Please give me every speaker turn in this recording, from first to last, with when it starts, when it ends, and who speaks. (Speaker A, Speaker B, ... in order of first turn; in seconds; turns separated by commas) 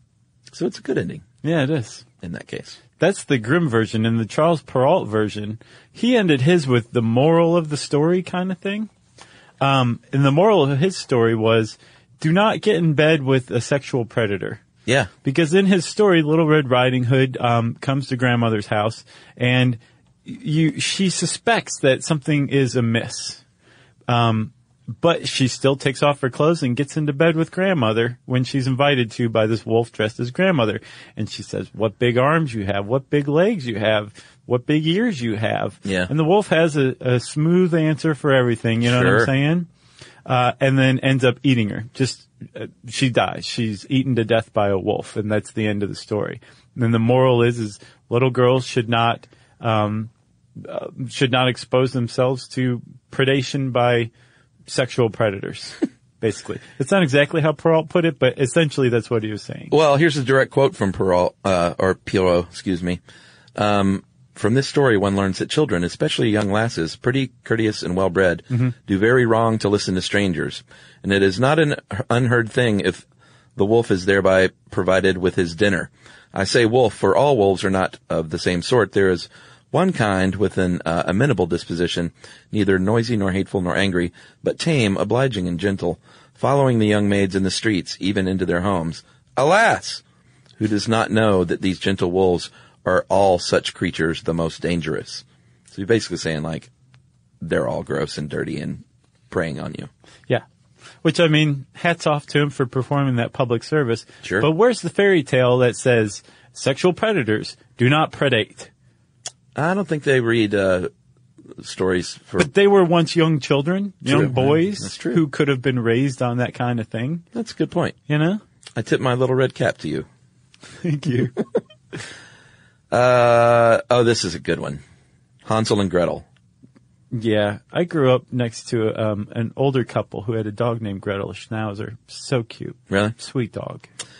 Speaker A: 0.5-1.2, Speaker B: 1.4-2.0, Speaker A: 2.2-2.8, Speaker B: 3.0-8.9, Speaker B: 9.6-14.6, Speaker A: 14.9-15.1, Speaker B: 15.2-23.4, Speaker B: 24.1-39.7, Speaker A: 35.8-36.1, Speaker A: 38.8-39.3, Speaker B: 40.3-54.1, Speaker B: 54.7-59.7, Speaker A: 59.7-63.0, Speaker A: 63.5-73.0, Speaker A: 73.6-90.0, Speaker A: 90.6-96.7, Speaker A: 97.4-99.9, Speaker B: 101.0-108.7, Speaker A: 104.2-104.5, Speaker A: 109.5-110.9, Speaker A: 111.6-112.5, Speaker B: 112.4-117.2, Speaker A: 114.1-115.2, Speaker A: 117.3-118.0, Speaker B: 118.1-118.4, Speaker A: 118.8-120.1, Speaker B: 120.8-121.4, Speaker A: 122.9-124.8, Speaker A: 125.5-126.3, Speaker B: 127.1-133.9